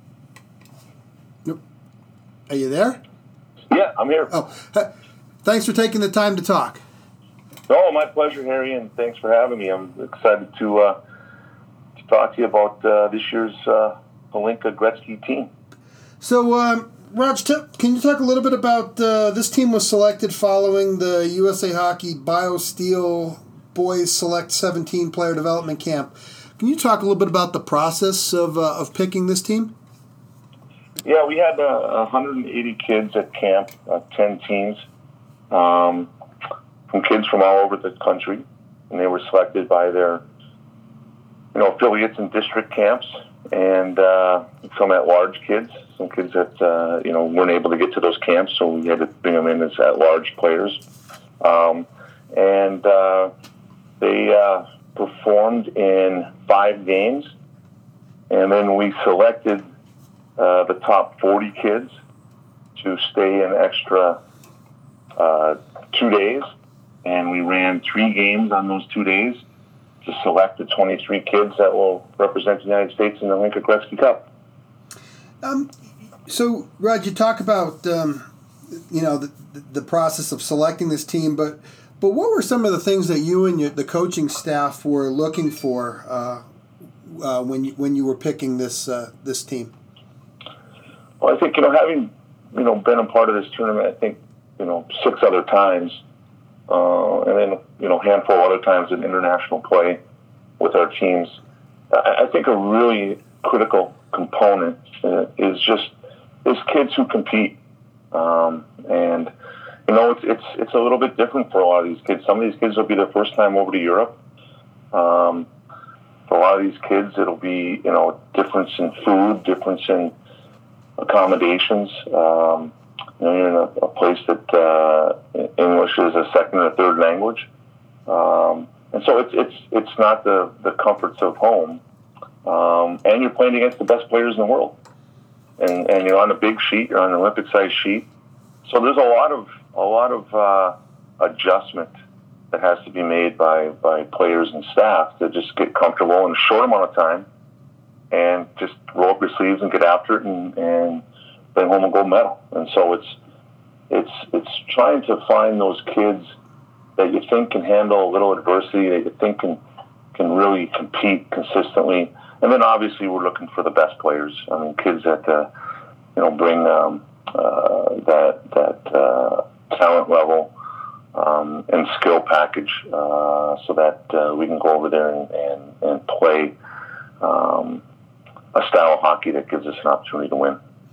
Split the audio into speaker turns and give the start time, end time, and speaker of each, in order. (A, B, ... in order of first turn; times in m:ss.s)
0:02.5-0:03.0 A
0:03.7-0:04.3 B
0:04.3-0:04.9 A
0:05.4-0:06.8 A
0:07.7-0:11.0 B
0:12.0-0:15.5 B
0:16.2-0:29.7 A
0:31.0-0:34.8 B
0:35.5-0:36.1 B
0:36.9-0:40.2 B
0:41.5-0:50.8 B
0:51.4-0:53.3 B
0:54.0-0:57.3 B
0:58.3-0:59.6 B
1:00.4-1:01.9 B
1:02.8-1:04.2 B
1:05.2-1:06.5 B
1:07.0-1:09.4 B
1:10.0-1:14.2 B
1:15.4-1:15.7 A
1:16.3-1:26.4 A
1:27.0-1:29.7 A
1:31.2-1:36.0 B
1:36.7-1:40.0 B
1:40.6-1:41.4 B
1:41.9-1:45.9 B
1:46.4-1:47.6 B
1:48.1-1:49.3 B
1:49.9-1:54.2 B
1:54.9-1:55.5 B
1:56.3-2:00.1 B
2:01.0-2:07.5 B
2:08.1-2:11.8 B
2:12.4-2:14.8 B
2:15.6-2:18.1 B
2:18.6-2:21.9 B
2:22.5-2:27.3 B
2:28.1-2:31.0 B
2:31.6-2:33.2 B
2:33.9-2:36.3 B
2:37.0-2:39.6 B
2:40.1-2:45.5 B
2:46.2-2:50.5 B
2:51.2-2:56.6 B
2:57.2-2:57.8 B
2:58.5-3:00.6 B